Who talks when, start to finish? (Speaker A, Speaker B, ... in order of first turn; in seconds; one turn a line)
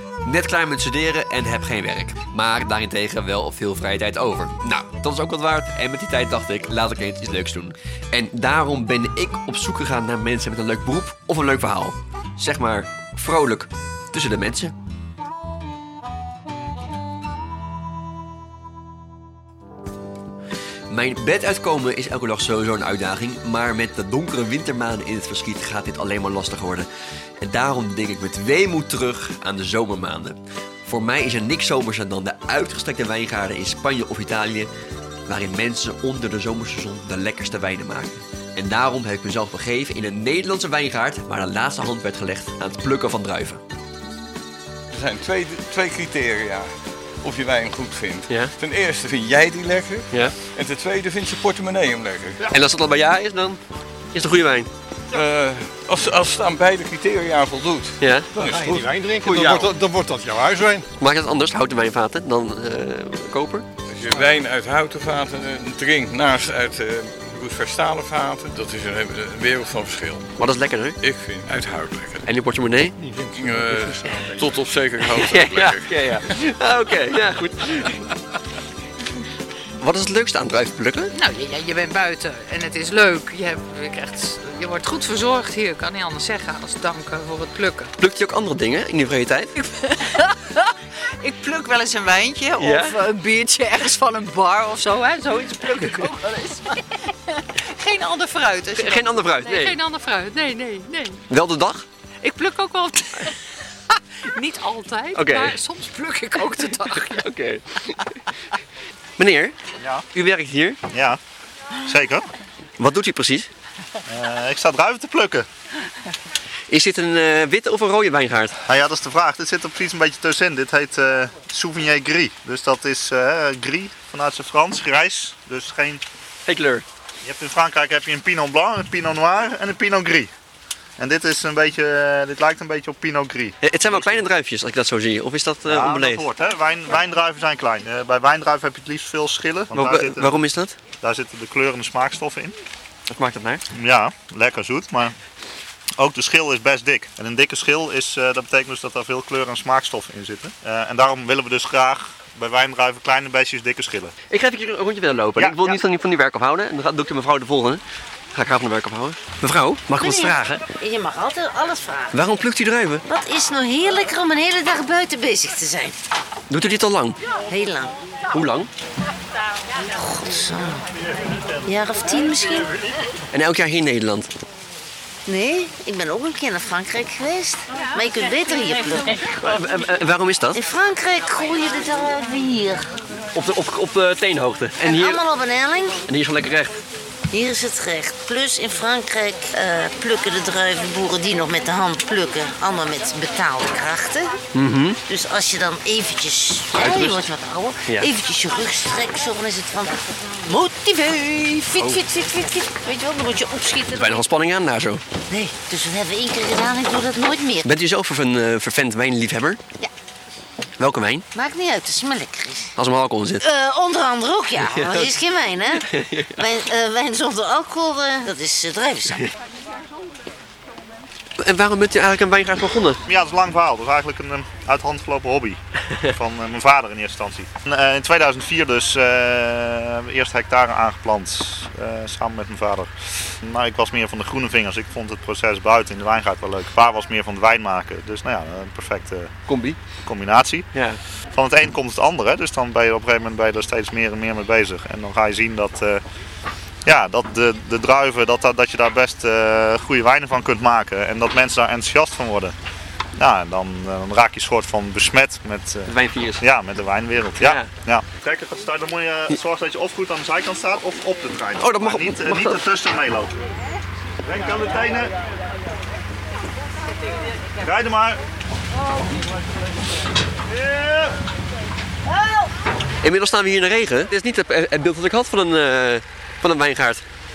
Speaker A: 0.2-14.7
Speaker A: 20.9-26.9
Speaker A: 27.4-34.7
Speaker A: 35.3-43.6
Speaker B: 44.9-46.7
Speaker B: 47.2-52.4
Speaker A: 48.3-48.5
Speaker A: 52.5-53.6
Speaker A: 54.1-54.7
Speaker B: 55.1-59.7
Speaker A: 58.0-58.3
Speaker C: 58.4-60.9
Speaker A: 61.0-63.7
Speaker B: 63.9-70.3
Speaker A: 70.4-71.0
Speaker B: 71.0-72.3
Speaker A: 72.2-73.0
Speaker C: 73.0-74.6
Speaker B: 73.3-76.2
Speaker A: 75.2-78.1
Speaker A: 79.8-81.1
Speaker D: 81.1-87.9
Speaker A: 88.0-89.5
Speaker D: 89.6-101.2
Speaker A: 92.6-93.0
Speaker A: 98.8-99.8
Speaker A: 101.3-101.9
Speaker D: 102.2-103.4
Speaker D: 103.9-107.3
Speaker A: 105.2-105.6
Speaker A: 106.9-108.0
Speaker A: 109.2-109.5
Speaker E: 109.8-110.1
Speaker A: 110.1-110.8
Speaker E: 110.9-111.2
Speaker E: 111.9-112.3
Speaker A: 112.8-113.5
Speaker E: 114.1-115.5
Speaker A: 116.7-118.5
Speaker E: 118.7-126.0
Speaker A: 126.5-126.8
Speaker E: 127.2-130.3
Speaker E: 131.0-133.6
Speaker A: 133.6-136.2
Speaker E: 135.7-140.4
Speaker A: 139.7-140.8
Speaker E: 141.0-142.6
Speaker A: 143.1-143.6
Speaker E: 143.7-145.2
Speaker E: 146.0-154.1
Speaker A: 154.3-157.8
Speaker E: 155.4-155.8
Speaker A: 158.3-160.6
Speaker F: 160.0-162.2
Speaker A: 162.1-163.1
Speaker F: 163.1-166.0
Speaker A: 166.5-167.2
Speaker F: 167.5-167.9
Speaker A: 168.3-168.7
Speaker F: 169.9-170.8
Speaker F: 171.7-172.7
Speaker A: 173.3-174.3
Speaker F: 175.3-179.2
Speaker A: 179.2-180.6
Speaker F: 180.5-182.9
Speaker A: 183.3-185.2
Speaker F: 184.8-186.0
Speaker A: 186.1-186.8
Speaker F: 187.3-194.3
Speaker A: 194.5-195.0
Speaker F: 195.1-204.2
Speaker A: 196.7-197.3
Speaker A: 197.9-198.1
Speaker A: 201.8-202.1
Speaker A: 203.9-205.0
Speaker F: 205.3-207.7
Speaker A: 207.6-209.6
Speaker A: 210.8-211.2
Speaker F: 211.3-212.7
Speaker A: 212.8-213.5
Speaker F: 213.4-215.8
Speaker A: 214.6-216.5
Speaker F: 216.4-219.2
Speaker A: 221.4-223.0
Speaker E: 223.1-239.3
Speaker A: 239.5-239.8
Speaker E: 240.1-240.7
Speaker A: 240.7-241.0
Speaker E: 241.3-246.0
Speaker E: 246.9-252.6
Speaker E: 253.2-263.3
Speaker A: 255.9-256.4
Speaker A: 257.4-257.7
Speaker A: 261.6-262.6
Speaker E: 264.2-265.1
Speaker E: 267.6-268.2
Speaker E: 270.5-271.1
Speaker A: 273.0-277.0